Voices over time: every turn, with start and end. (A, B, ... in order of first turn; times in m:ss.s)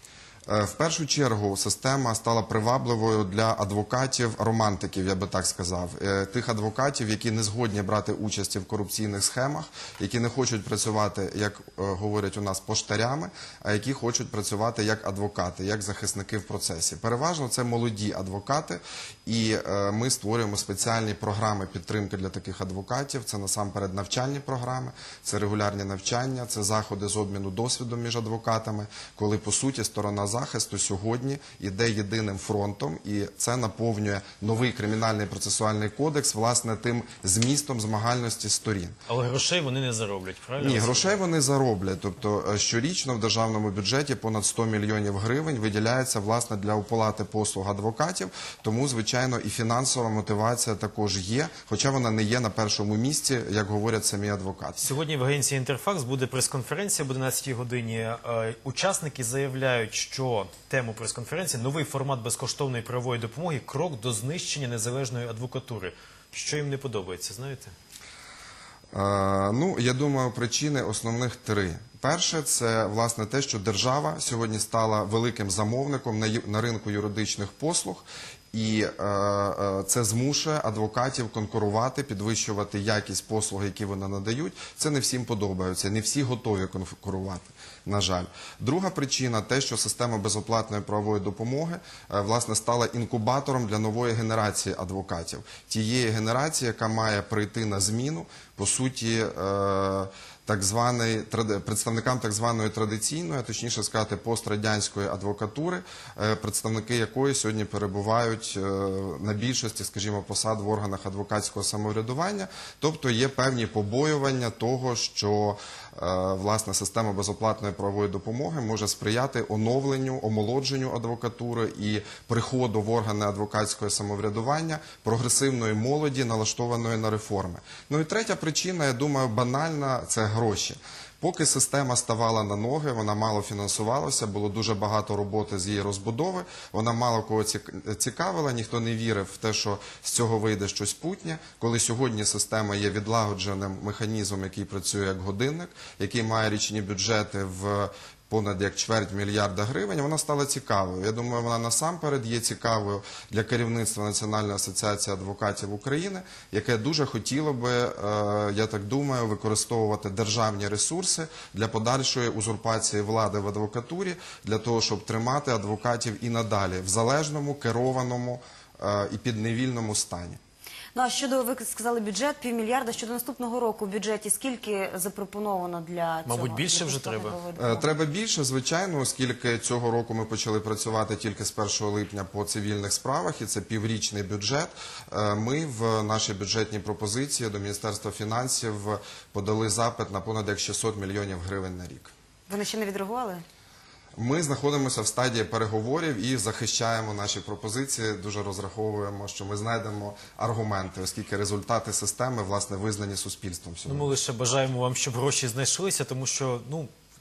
0:00.5-0:39.0 A
0:39.1-0:41.1 B
0:40.6-0:54.9 A
0:54.8-1:07.7 B
1:08.9-2:50.4 A
2:50.9-2:57.9 C
2:56.2-2:57.4 B
2:57.6-3:12.1 A
3:12.5-3:13.4 C
3:14.2-3:24.1 A
3:23.9-3:26.9 B